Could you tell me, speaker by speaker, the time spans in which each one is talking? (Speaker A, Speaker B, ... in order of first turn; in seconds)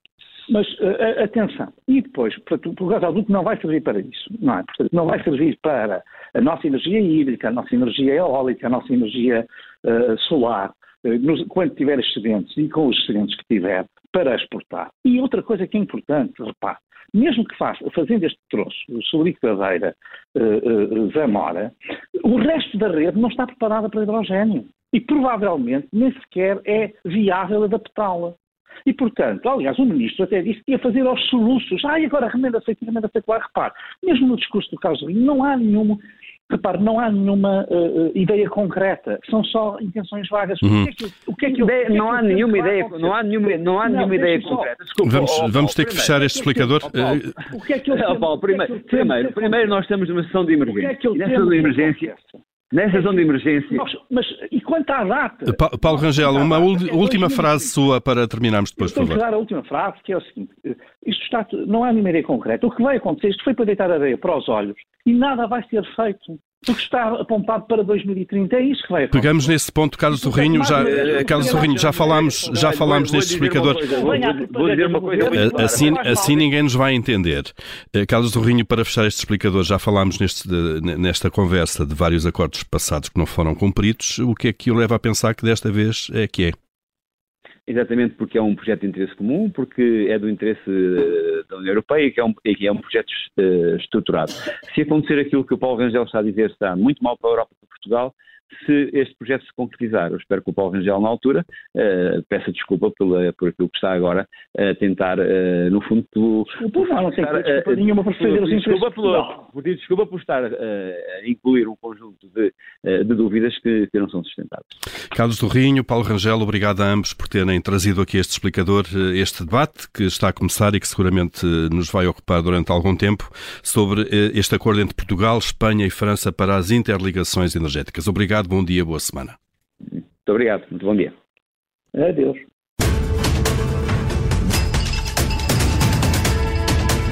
Speaker A: 0.5-43.2, 43.8-44.7, 46.2-49.8, 50.7-52.4, 52.9-57.7, 58.8-69.5, 70.1-72.6, 73.6-76.5, 106.6-109.4, 131.9-132.4
Speaker B: 40.6-40.9, 45.0-47.3, 55.5-59.2, 69.1-74.2, 75.2-86.5, 115.1-129.4
Speaker C: 41.4-46.3, 47.9-52.1, 52.7-53.8, 70.8-76.2, 87.7-114.7, 130.2-131.1